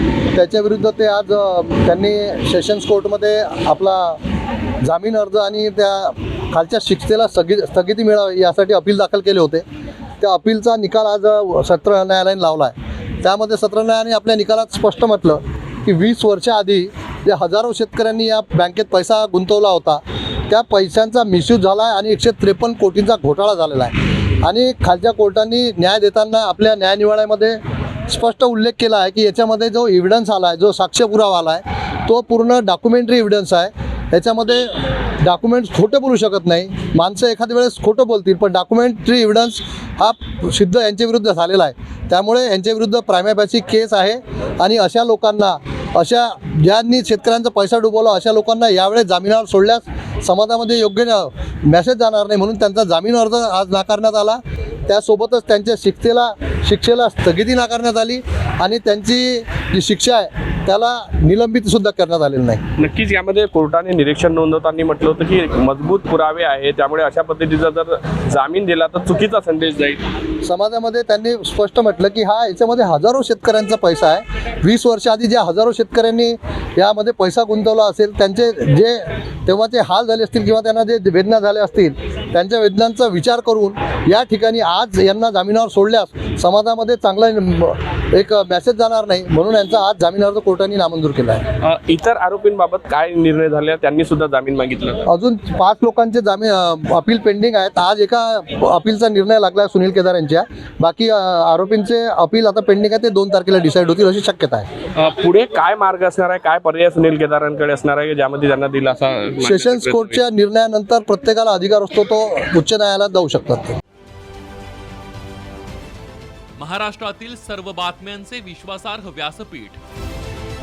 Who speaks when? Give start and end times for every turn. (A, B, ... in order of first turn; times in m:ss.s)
0:00.3-0:04.2 A
0:04.8-0:09.6 A
0:10.2-1:02.6 A
1:02.8-1:10.0 B
1:10.4-1:31.5 A
1:31.6-1:35.0 B
1:35.1-1:44.7 A
1:45.0-1:50.2 B
1:49.4-1:53.8 A
1:56.6-1:59.8 C